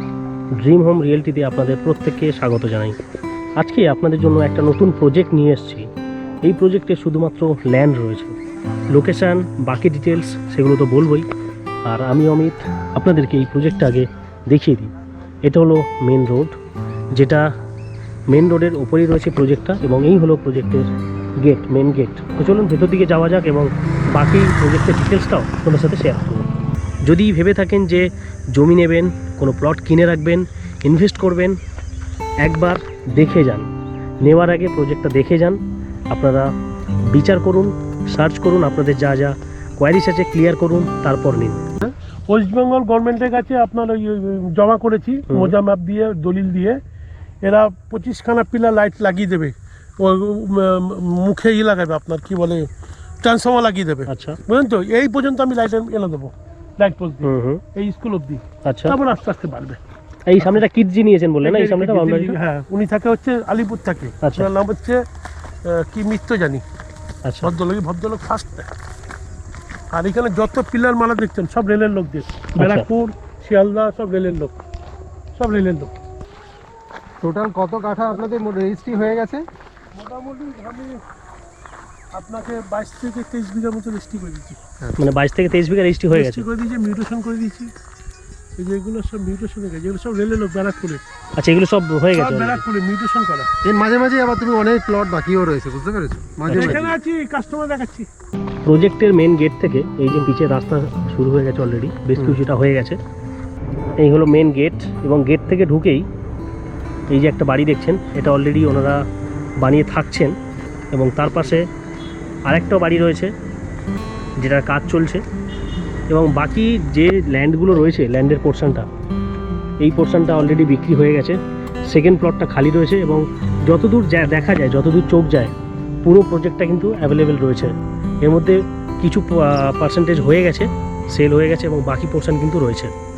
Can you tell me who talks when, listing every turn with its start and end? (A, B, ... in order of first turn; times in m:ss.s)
0:00.6-0:03.0 A
0:03.6-0:05.9 A
0:06.4-0:08.4 A
0:08.9-0:11.3 A
0:11.8-0:14.9 A
0:15.4-0:16.6 A
0:17.1-0:17.5 A
0:18.3-0:20.9 A
0:21.4-0:26.5 A
0:27.0-0:31.6 A
0:32.4-0:36.5 A
0:37.1-0:41.6 A
0:41.8-0:46.8 B
0:45.3-0:45.6 A
0:47.4-0:52.7 B
0:53.2-0:59.8 B
0:54.1-0:54.4 A
0:57.2-0:57.6 A
0:58.6-0:59.0 A
1:00.3-1:02.4 A
1:01.4-1:05.0 B
1:04.2-1:04.5 A
1:05.6-1:06.6 B
1:07.2-1:07.5 A
1:07.4-1:08.7 B
1:09.9-1:14.6 B
1:12.6-1:12.8 A
1:15.4-1:15.9 B
1:17.2-1:19.4 C
1:19.9-1:21.0 B
1:22.1-1:24.6 B
1:25.0-1:26.4 A
1:26.1-1:27.7 B
1:28.6-1:31.0 B
1:31.4-1:32.6 A
1:32.1-1:33.5 B
1:33.6-1:36.9 C
1:36.5-1:36.8 A
1:36.5-1:38.1 B
1:38.6-1:43.0 A
1:44.0-1:46.1 A
1:47.1-1:49.0 A
1:49.6-1:50.4 A
1:50.9-1:51.7 A
1:52.5-1:53.3 A
1:54.4-1:55.2 A
1:56.1-1:58.9 A
1:59.8-2:05.5 A
2:06.0-2:12.9 A